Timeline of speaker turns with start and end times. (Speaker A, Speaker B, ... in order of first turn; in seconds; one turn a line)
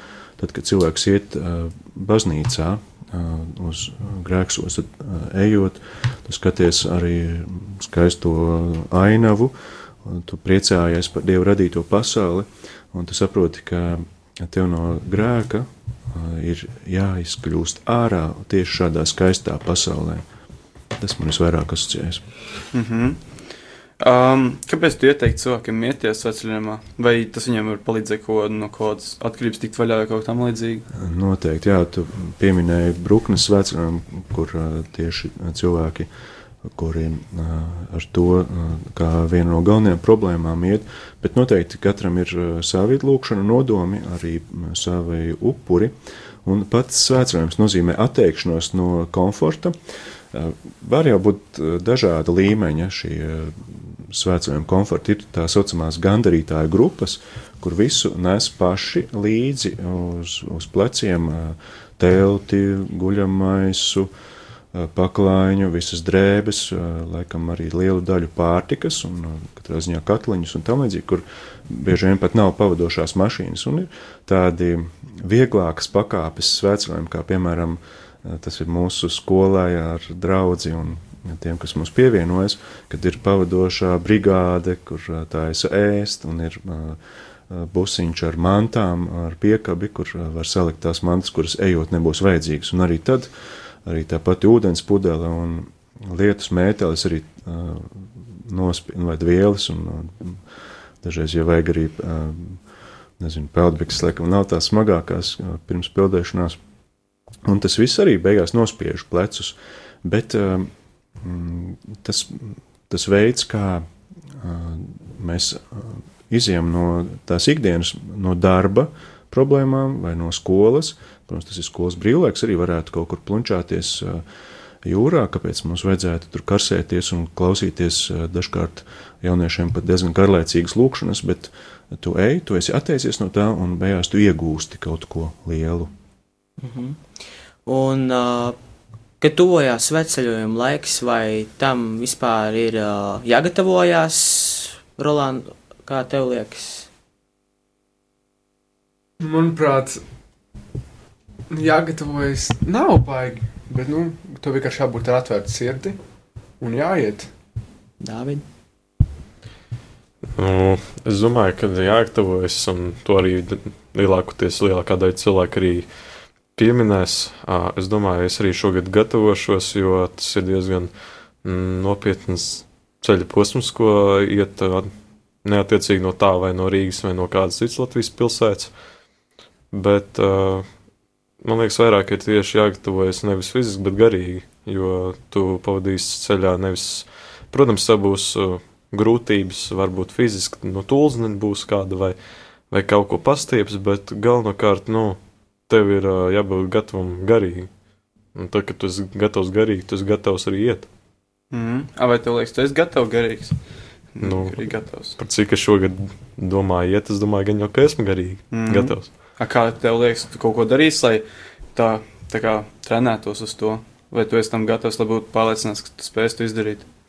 Speaker A: 0.4-20.2
Speaker A: 20.9-22.2
Speaker B: 22.7-23.2
Speaker B: 24.0-30.9
Speaker A: 30.9-36.1
Speaker A: 36.6-49.8
Speaker A: 50.3-64.1
Speaker A: 64.7-93.3
Speaker A: 93.8-100.4
Speaker A: 101.0-102.6
Speaker A: 103.2-106.6
Speaker A: 107.4-124.2
Speaker A: 124.8-135.9
Speaker C: 136.6-137.0
Speaker C: 137.7-138.6
Speaker C: 139.2-146.9
Speaker D: 149.2-150.0
Speaker D: 151.5-156.0
Speaker D: 156.6-157.3
Speaker C: 158.0-158.4
Speaker E: 160.3-165.9
Speaker E: 166.5-170.9
Speaker E: 171.4-174.9
Speaker E: 175.4-178.7
Speaker E: 179.7-180.7
Speaker E: 181.4-192.2
Speaker E: 192.7-197.7
Speaker E: 198.3-200.9
Speaker B: 201.5-203.6
Speaker B: 204.1-205.2
Speaker E: 204.2-209.1
Speaker B: 208.5-216.9